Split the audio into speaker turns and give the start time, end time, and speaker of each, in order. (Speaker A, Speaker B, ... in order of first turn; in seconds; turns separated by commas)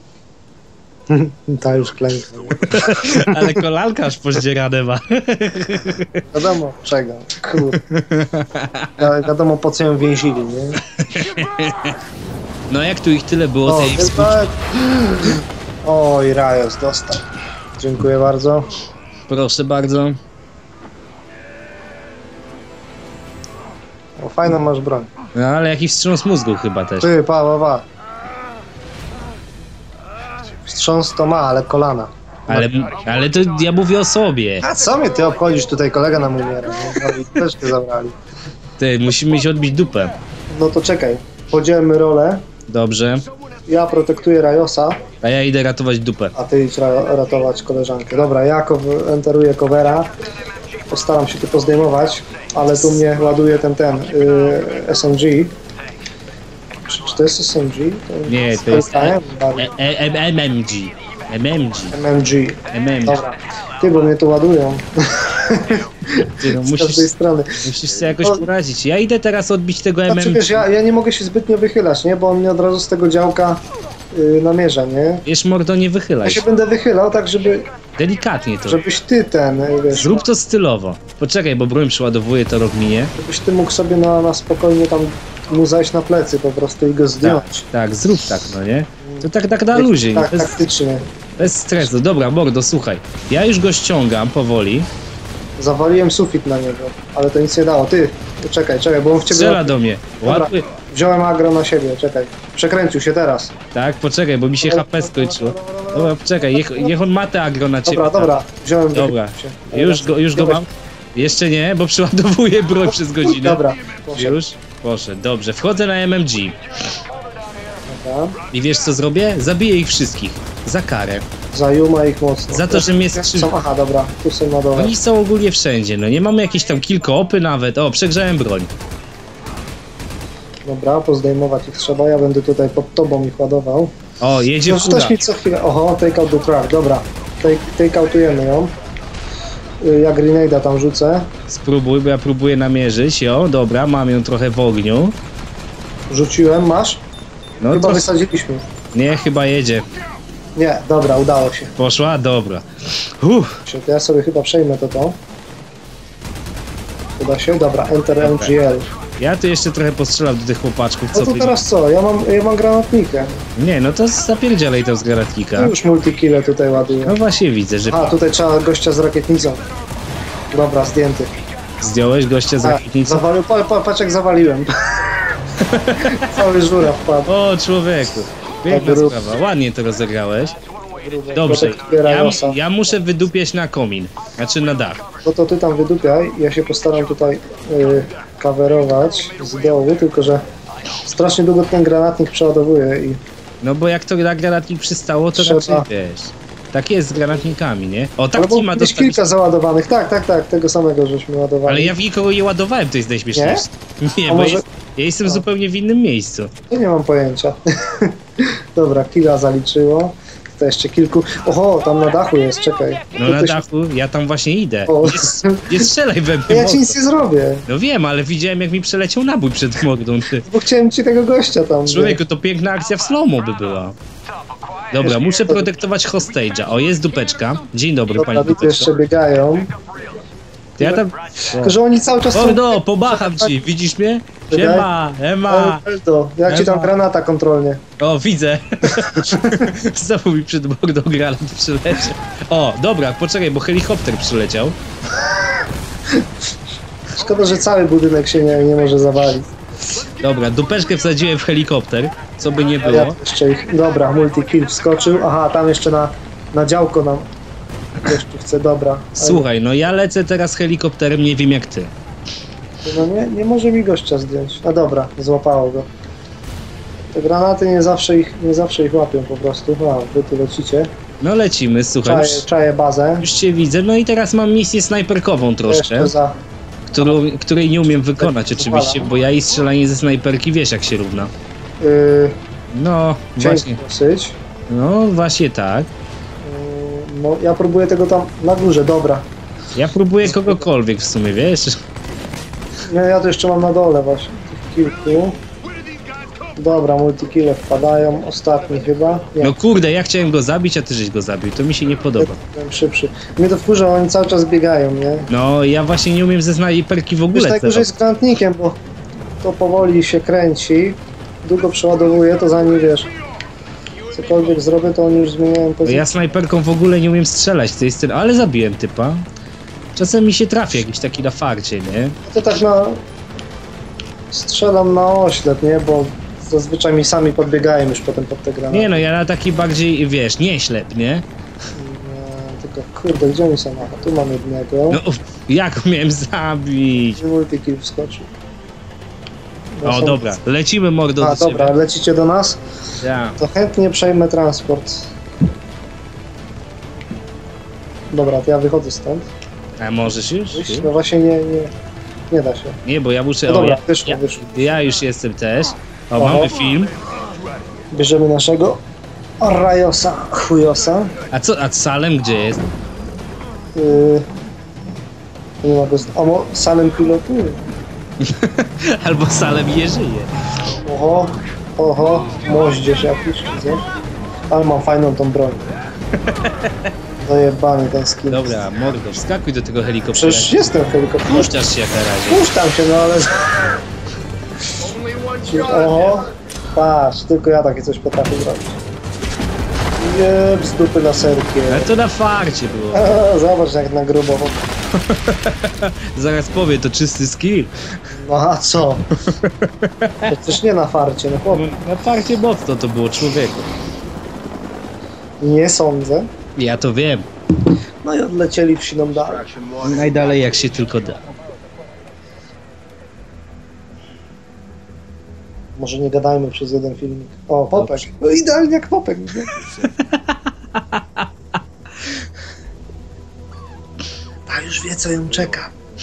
Speaker A: 1.1-3.6, Speaker B: 2.7-6.2, Speaker A: 6.3-7.8, Speaker B: 7.7-9.0, Speaker A: 9.0-10.8, Speaker B: 11.0-12.0, Speaker B: 12.7-14.5, Speaker A: 13.7-17.2, Speaker A: 17.8-18.7, Speaker B: 19.3-20.2, Speaker A: 24.2-25.1, Speaker B: 25.4-27.1, Speaker A: 27.0-27.9, Speaker A: 30.6-32.8, Speaker B: 32.5-34.6, Speaker A: 34.6-38.1, Speaker B: 38.8-40.1, Speaker A: 40.5-42.4, Speaker B: 42.7-43.2, Speaker A: 43.7-45.0, Speaker B: 45.2-46.4, Speaker A: 46.4-50.1, Speaker A: 50.9-55.5, Speaker A: 56.9-59.7, Speaker B: 58.3-62.0, Speaker A: 61.9-67.6, Speaker B: 62.7-63.2, Speaker B: 66.4-67.1, Speaker B: 67.6-70.6, Speaker A: 68.2-68.5, Speaker A: 70.1-75.3, Speaker B: 75.3-76.4, Speaker A: 76.2-77.7, Speaker B: 78.0-78.8, Speaker A: 78.7-80.2, Speaker B: 79.9-83.1, Speaker A: 83.2-87.7, Speaker B: 87.2-90.6, Speaker A: 89.0-91.5, Speaker B: 91.4-94.9, Speaker A: 95.6-103.5, Speaker B: 99.2-100.7, Speaker B: 103.7-108.4, Speaker A: 104.6-107.0, Speaker A: 107.9-110.7, Speaker B: 108.9-113.6, Speaker A: 112.9-114.4, Speaker B: 114.2-116.6, Speaker A: 117.9-118.4, Speaker B: 118.5-121.3, Speaker A: 121.5-125.0, Speaker B: 122.5-123.5, Speaker B: 124.8-128.7, Speaker A: 130.7-133.9, Speaker B: 134.2-135.2, Speaker A: 134.7-138.7, Speaker A: 139.8-141.3, Speaker B: 141.5-145.2, Speaker A: 146.1-147.0, Speaker B: 147.6-148.0, Speaker A: 147.7-148.6, Speaker B: 148.9-149.9, Speaker A: 150.6-151.7, Speaker B: 151.8-152.7, Speaker B: 153.2-153.6, Speaker A: 153.7-155.2, Speaker A: 157.2-158.9, Speaker B: 158.2-158.5, Speaker B: 159.2-161.6, Speaker A: 161.1-163.4, Speaker B: 163.6-165.7, Speaker A: 165.6-167.2, Speaker B: 167.1-168.1, Speaker A: 167.9-169.6, Speaker A: 170.5-171.3, Speaker B: 171.8-173.2, Speaker A: 172.6-175.2, Speaker B: 175.6-176.3, Speaker A: 176.0-177.3, Speaker B: 177.3-180.6, Speaker A: 178.7-179.2, Speaker A: 180.9-182.6, Speaker B: 181.4-185.0, Speaker A: 185.2-190.4, Speaker A: 191.0-193.2, Speaker B: 193.6-199.3, Speaker A: 195.3-195.9, Speaker A: 197.2-197.5, Speaker A: 198.3-201.9, Speaker B: 201.7-206.5, Speaker A: 203.3-203.7, Speaker A: 204.3-204.6, Speaker A: 206.7-213.6, Speaker B: 213.2-216.9, Speaker A: 214.9-215.9, Speaker A: 216.5-217.7, Speaker B: 217.7-220.4, Speaker A: 220.4-222.2, Speaker B: 221.9-224.0, Speaker B: 224.9-228.9, Speaker A: 225.0-225.7, Speaker A: 228.2-229.7, Speaker B: 230.8-231.8, Speaker A: 230.8-233.5, Speaker B: 232.3-235.8, Speaker A: 234.5-234.9, Speaker A: 235.5-237.8, Speaker B: 236.5-236.9, Speaker B: 238.0-244.8, Speaker A: 239.2-239.7, Speaker A: 247.2-249.5, Speaker B: 250.2-253.2, Speaker A: 252.8-257.3, Speaker A: 258.0-259.5, Speaker B: 259.2-261.9, Speaker A: 262.8-265.9, Speaker A: 267.1-270.9, Speaker B: 271.2-272.4, Speaker A: 272.0-273.3, Speaker B: 273.2-276.1, Speaker A: 275.7-276.4, Speaker B: 276.9-281.3, Speaker A: 278.2-279.1, Speaker A: 281.8-282.4, Speaker B: 282.7-283.8, Speaker A: 283.4-284.4, Speaker B: 284.7-285.9, Speaker A: 286.4-289.3, Speaker B: 289.8-291.8, Speaker A: 290.2-290.7, Speaker A: 292.9-295.4, Speaker A: 296.6-299.5, Speaker B: 299.4-302.4, Speaker A: 302.2-305.3, Speaker B: 305.3-307.9, Speaker A: 307.3-308.8, Speaker A: 309.4-313.1, Speaker A: 314.1-316.1, Speaker B: 315.9-319.2, Speaker B: 320.0-322.2, Speaker A: 322.3-323.0, Speaker A: 324.3-329.1, Speaker B: 328.7-331.2, Speaker A: 331.8-335.0, Speaker B: 334.9-337.2, Speaker A: 337.1-338.3, Speaker A: 339.8-340.3, Speaker B: 339.8-341.7, Speaker A: 341.2-342.6, Speaker B: 343.0-343.4, Speaker A: 343.4-345.1, Speaker A: 348.1-349.3, Speaker B: 349.8-350.9, Speaker A: 350.5-351.7, Speaker A: 352.3-352.8, Speaker B: 352.9-356.9, Speaker A: 353.5-354.8, Speaker A: 356.1-356.6, Speaker A: 357.9-358.8, Speaker A: 359.4-361.1, Speaker B: 361.3-362.6, Speaker A: 363.8-364.2, Speaker A: 365.6-367.6, Speaker B: 368.2-370.3, Speaker A: 370.7-373.9, Speaker A: 374.5-375.6, Speaker B: 376.3-376.7, Speaker A: 377.2-378.6, Speaker B: 378.3-380.5, Speaker A: 380.1-381.5, Speaker B: 381.2-382.4, Speaker A: 382.3-383.8, Speaker A: 385.4-388.8, Speaker A: 390.0-391.9, Speaker B: 391.7-393.1, Speaker A: 392.9-394.6, Speaker B: 395.1-397.7, Speaker A: 398.1-399.1, Speaker B: 399.2-400.3, Speaker A: 400.3-401.8, Speaker B: 401.5-403.7, Speaker A: 405.4-406.3, Speaker B: 406.6-407.3, Speaker A: 408.0-409.5, Speaker B: 409.8-411.2, Speaker A: 415.8-419.5, Speaker B: 417.8-418.0, Speaker B: 419.7-421.2, Speaker A: 424.5-425.7